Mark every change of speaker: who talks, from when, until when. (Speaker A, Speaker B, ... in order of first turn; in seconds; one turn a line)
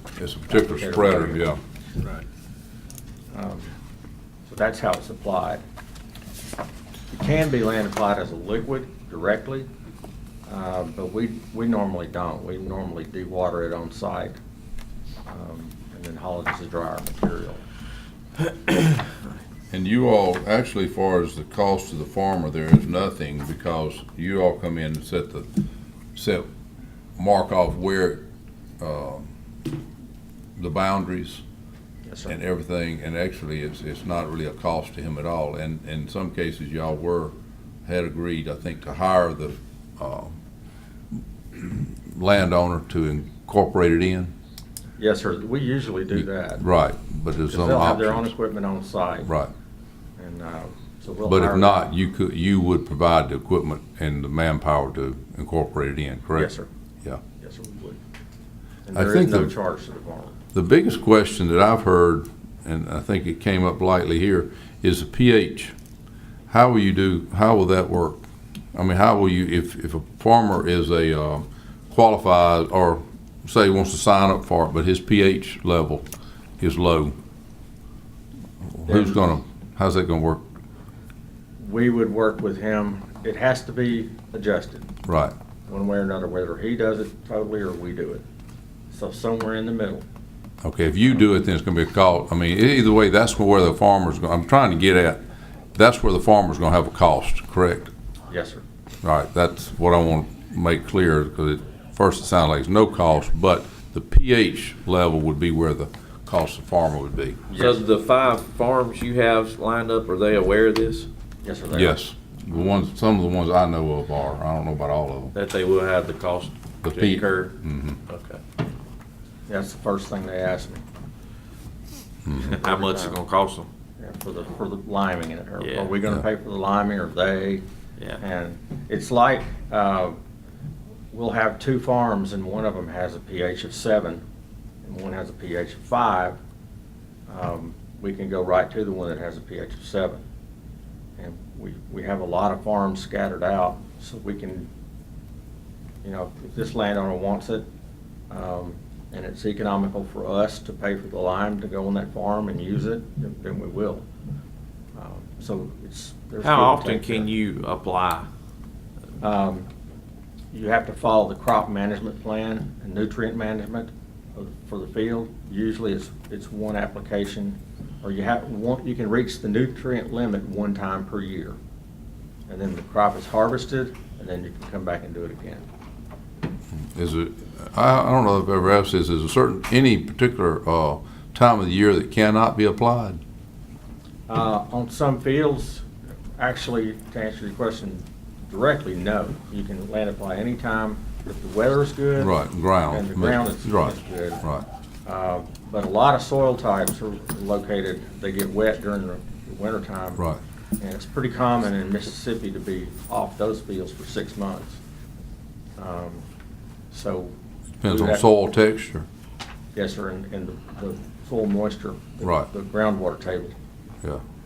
Speaker A: 0.2-1.6
Speaker B: 0.5-1.5
Speaker B: 3.3-3.7
Speaker B: 4.5-5.6
Speaker B: 7.1-9.7
Speaker B: 10.5-14.4
Speaker B: 15.3-17.6
Speaker A: 19.7-25.5
Speaker A: 26.1-26.5
Speaker A: 27.2-28.2
Speaker A: 28.8-29.3
Speaker A: 30.6-31.4
Speaker B: 32.1-32.3
Speaker A: 32.3-37.3
Speaker A: 37.9-40.4
Speaker A: 41.5-44.3
Speaker B: 45.0-46.6
Speaker A: 46.1-48.3
Speaker B: 47.5-49.3
Speaker A: 49.2-49.5
Speaker B: 50.2-51.9
Speaker A: 51.3-56.5
Speaker B: 56.4-56.7
Speaker B: 57.4-58.0
Speaker B: 58.9-60.4
Speaker A: 58.9-59.5
Speaker A: 60.5-65.7
Speaker A: 66.5-68.2
Speaker A: 68.7-76.1
Speaker A: 76.6-77.2
Speaker A: 78.7-80.4
Speaker B: 78.9-79.2
Speaker B: 81.6-84.9
Speaker A: 85.0-85.3
Speaker B: 85.7-88.2
Speaker B: 88.9-90.0
Speaker A: 90.6-95.2
Speaker A: 95.8-97.9
Speaker B: 98.3-98.6
Speaker A: 99.0-107.5
Speaker B: 107.5-107.8
Speaker C: 107.5-111.1
Speaker B: 111.4-112.0
Speaker A: 111.7-115.3
Speaker C: 115.3-117.5
Speaker A: 116.8-118.0
Speaker C: 118.1-118.4
Speaker B: 119.5-120.8
Speaker A: 122.3-122.5
Speaker C: 122.4-123.7
Speaker B: 122.6-123.2
Speaker B: 124.0-127.6
Speaker C: 125.6-125.9
Speaker B: 128.2-130.2
Speaker B: 131.1-134.2
Speaker B: 134.8-136.4
Speaker B: 137.3-140.2
Speaker B: 141.2-144.7
Speaker B: 146.0-147.7
Speaker B: 148.3-154.1
Speaker B: 155.0-157.3
Speaker C: 156.4-158.3
Speaker B: 159.2-159.7
Speaker B: 160.5-171.6
Speaker B: 172.5-175.7
Speaker A: 176.8-183.2
Speaker B: 184.3-192.3
Speaker A: 192.2-194.7
Speaker B: 192.9-194.4
Speaker B: 195.1-200.2
Speaker B: 200.8-204.8
Speaker B: 205.8-206.2
Speaker B: 206.9-207.3
Speaker A: 207.8-209.1
Speaker B: 207.9-208.3
Speaker B: 209.8-213.6
Speaker A: 212.2-212.5